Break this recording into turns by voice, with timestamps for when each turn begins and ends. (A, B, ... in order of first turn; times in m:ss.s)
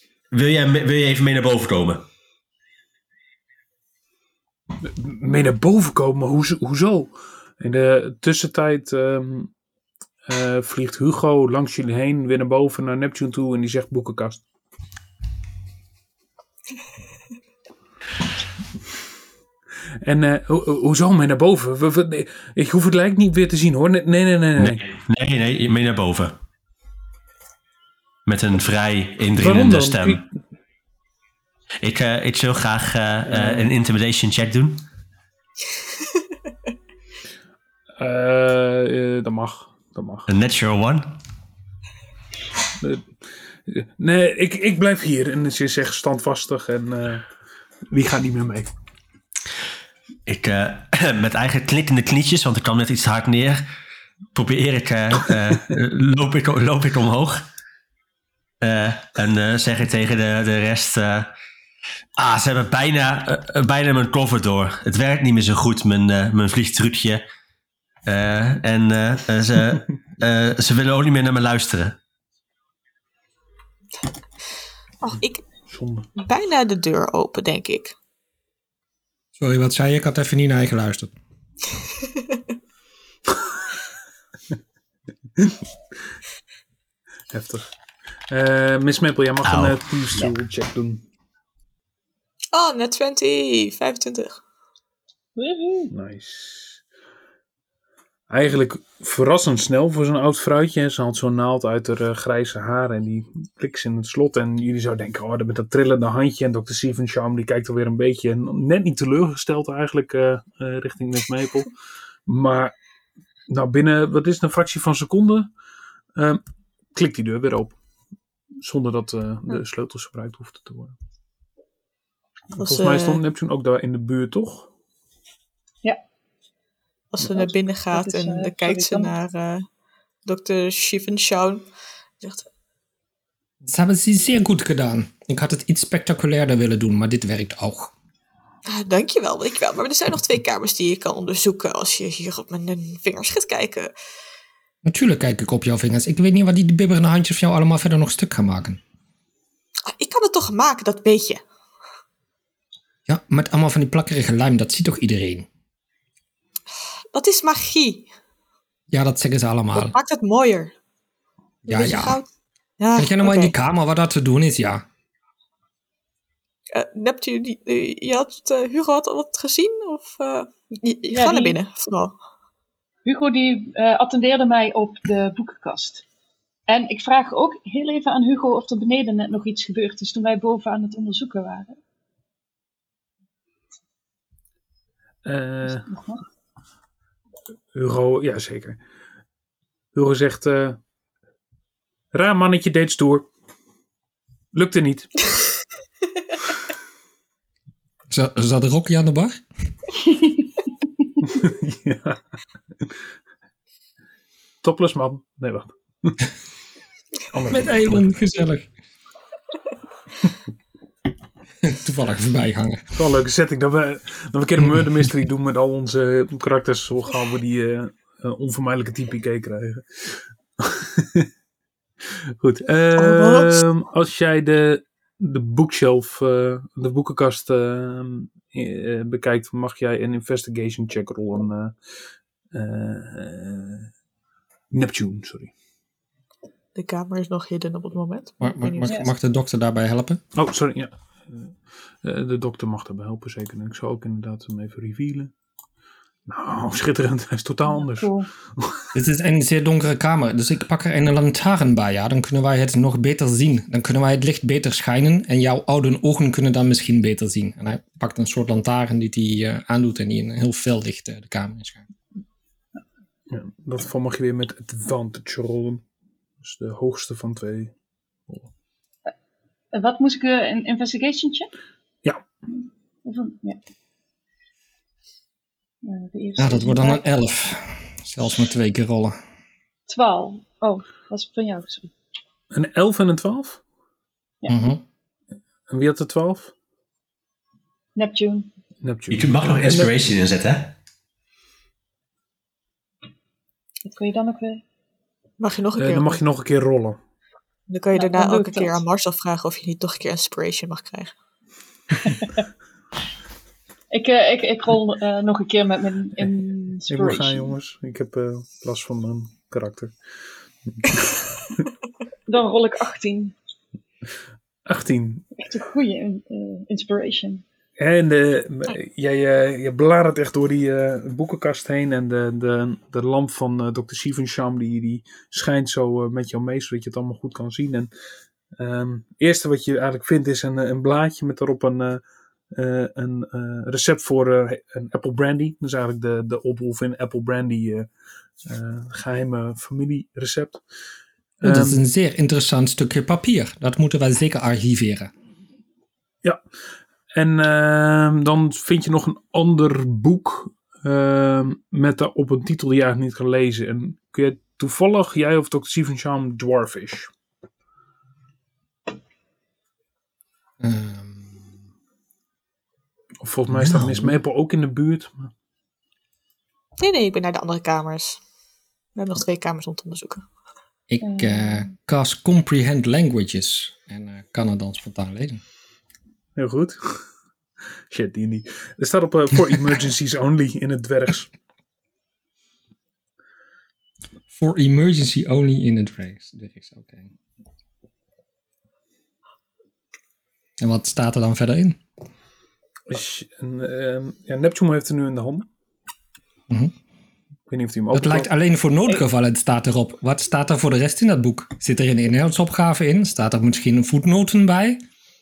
0:00.3-0:02.0 A
0:04.8-0:09.5 B
0:10.3-0:14.4 B
0:20.0-0:24.8 B
0:24.6-0:26.4 A
0:28.2-0:30.2 A
0:29.4-0:30.3 B
0:31.8-0:34.8 A
0:33.3-0:33.7 B
0:38.0-0:40.3 B
0:40.3-0:41.2 A
0:42.8-0:47.3 B
0:47.9-0:48.7 B
0:50.2-0:53.6 A
0:54.3-0:57.4 A
0:58.6-1:01.3 A
1:02.2-1:07.2 A
1:08.0-1:12.0 A
1:15.0-1:15.4 C
1:15.7-1:16.1 B
1:16.2-1:17.9 C
1:19.4-1:21.1 D
1:22.0-1:22.4 C
1:27.3-1:27.7 B
1:28.3-1:31.0 B
1:29.4-1:30.3 A
1:32.5-1:34.4 C
1:35.4-1:35.9 E
1:35.9-1:36.8 B
1:38.3-1:51.7 B
1:52.2-1:52.7 B
1:53.5-1:55.5 B
1:56.1-1:56.4 B
1:56.9-1:57.8 B
1:58.6-2:00.9 B
2:02.5-2:03.2 C
2:02.6-2:04.7 B
2:07.1-2:09.6 C
2:07.3-2:09.1 E
2:10.2-2:11.7 C
2:12.2-2:12.4 C
2:13.6-2:17.9 D
2:18.6-2:23.9 C
2:24.8-2:28.8 D
2:29.9-2:31.4 C
2:33.1-2:35.5 D
2:37.1-2:38.1 C
2:38.9-2:40.0 D
2:39.7-2:40.7 C
2:41.6-2:42.2 D
2:41.7-2:42.3 C
2:42.8-2:43.5 C
2:43.0-2:44.8 D
2:46.7-2:52.2 C
2:51.1-2:51.6 E
2:53.0-2:56.0 E
2:56.7-3:01.8 E
3:05.2-3:05.8 B
3:05.6-3:06.2 E
3:07.7-3:08.8 B
3:09.9-3:10.8 B
3:12.1-3:13.3 B
3:14.5-3:15.2 B
3:18.1-3:19.4 D
3:21.3-3:22.2 B
3:24.6-3:26.3 B
3:27.3-3:28.1 B
3:27.5-3:28.7 D
3:31.6-3:32.8 D
3:33.0-3:41.3 B
3:42.4-3:51.8 B
3:43.0-3:43.6 C
3:52.5-3:53.9 B
3:54.7-3:55.5 B
3:56.7-3:59.0 C
3:58.4-4:00.2 D
4:00.3-4:05.3 B
4:06.3-4:08.7 B
4:07.7-4:08.3 E
4:08.9-4:21.9 D
4:23.3-4:25.8 B
4:26.4-4:27.7 B
4:29.7-4:31.5 E
4:32.6-4:33.6 E
4:35.8-4:37.0 E
4:36.4-4:39.2 D
4:39.9-4:41.9 E
4:42.5-4:43.6 B
4:44.5-4:44.8 D
4:45.7-4:46.5 B
4:48.0-4:48.5 E
4:48.8-4:49.9 B
4:49.1-4:50.7 A
4:53.8-4:54.6 E
4:55.4-4:56.2 C
4:55.8-4:57.0 B
4:57.7-5:01.1 C
4:58.0-4:58.8 E
5:02.0-5:02.4 E
5:03.9-5:07.5 E
5:06.9-5:10.0 B
5:10.6-5:11.1 B
5:12.3-5:13.3 E
5:14.6-5:15.3 B
5:15.4-5:17.4 E
5:17.8-5:27.9 B
5:28.6-5:37.9 B
5:38.4-5:40.6 B
5:41.4-5:41.8 B
5:41.4-5:45.1 D
5:47.1-5:57.1 B
6:00.6-6:01.4 D
6:03.2-6:05.3 B
6:03.5-6:04.2 D
6:06.8-6:08.2 C
6:08.9-6:10.2 C
6:10.9-6:15.4 D
6:11.0-6:11.6 E
6:16.4-6:17.1 B
6:17.9-6:21.3 B
6:24.3-6:27.1 D
6:30.6-6:31.8 D
6:32.9-6:35.5 B
6:37.5-6:38.3 B
6:37.9-6:44.8 D